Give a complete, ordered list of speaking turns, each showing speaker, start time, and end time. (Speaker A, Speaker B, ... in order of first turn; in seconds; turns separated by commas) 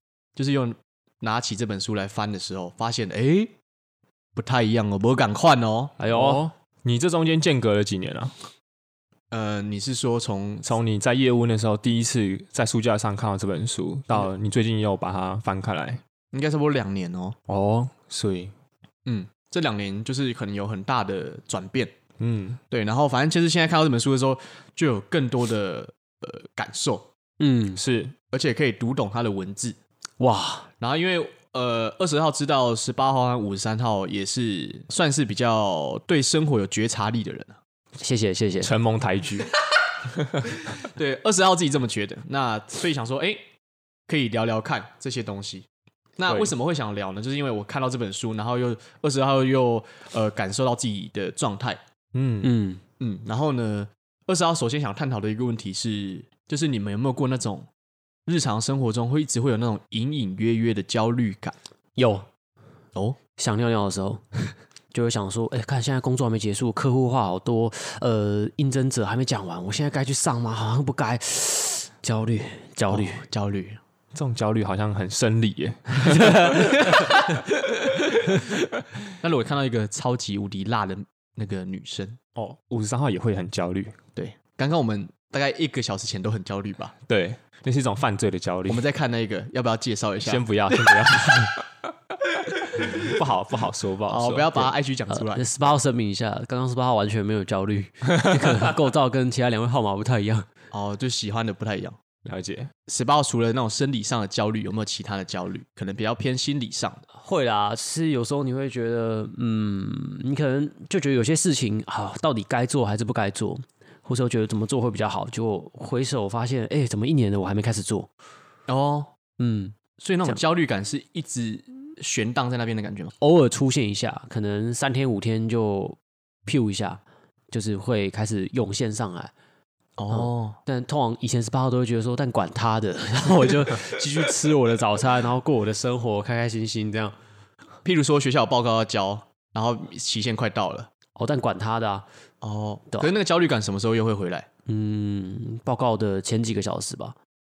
Speaker A: 0.4-3.5, Speaker A: 4.4-6.0, Speaker B: 6.0-6.4, Speaker C: 6.1-8.3, Speaker A: 9.3-10.7, Speaker C: 10.7-16.0, Speaker A: 16.3-17.4, Speaker C: 17.5-18.5, Speaker A: 19.1-21.9, Speaker C: 22.2-22.6, Speaker A: 22.7-27.1, Speaker B: 27.4-27.8, Speaker C: 27.8-28.1, Speaker A: 28.3-29.8, Speaker B: 30.2-30.7, Speaker A: 30.8-37.6, Speaker B: 38.0-38.7, Speaker C: 38.6-39.5, Speaker A: 40.6-43.4, Speaker A: 44.1-45.7, Speaker A: 46.2-51.8, Speaker C: 46.3-46.5, Speaker C: 52.1-52.5, Speaker B: 52.4-52.8, Speaker A: 53.0-57.7, Speaker A: 58.3-61.5, Speaker B: 62.0-62.3, Speaker B: 63.4-73.2, Speaker A: 72.9-73.8, Speaker C: 74.1-77.2, Speaker B: 76.0-77.2, Speaker A: 79.2-82.2, Speaker C: 82.3-84.0, Speaker A: 84.2-87.0, Speaker C: 87.1-88.8, Speaker A: 88.7-90.5, Speaker C: 90.2-91.9, Speaker C: 92.8-94.7, Speaker A: 94.1-95.5, Speaker B: 95.1-100.5, Speaker C: 98.3-98.6, Speaker A: 100.7-102.0, Speaker C: 102.2-102.7, Speaker A: 102.9-107.0, Speaker B: 107.1-118.1, Speaker A: 118.7-119.1, Speaker B: 119.4-120.4, Speaker A: 120.0-123.1, Speaker B: 123.2-129.3, Speaker A: 130.0-130.6, Speaker B: 130.1-137.2, Speaker A: 137.8-140.9, Speaker B: 141.2-142.1, Speaker A: 142.4-144.5, Speaker B: 144.7-147.2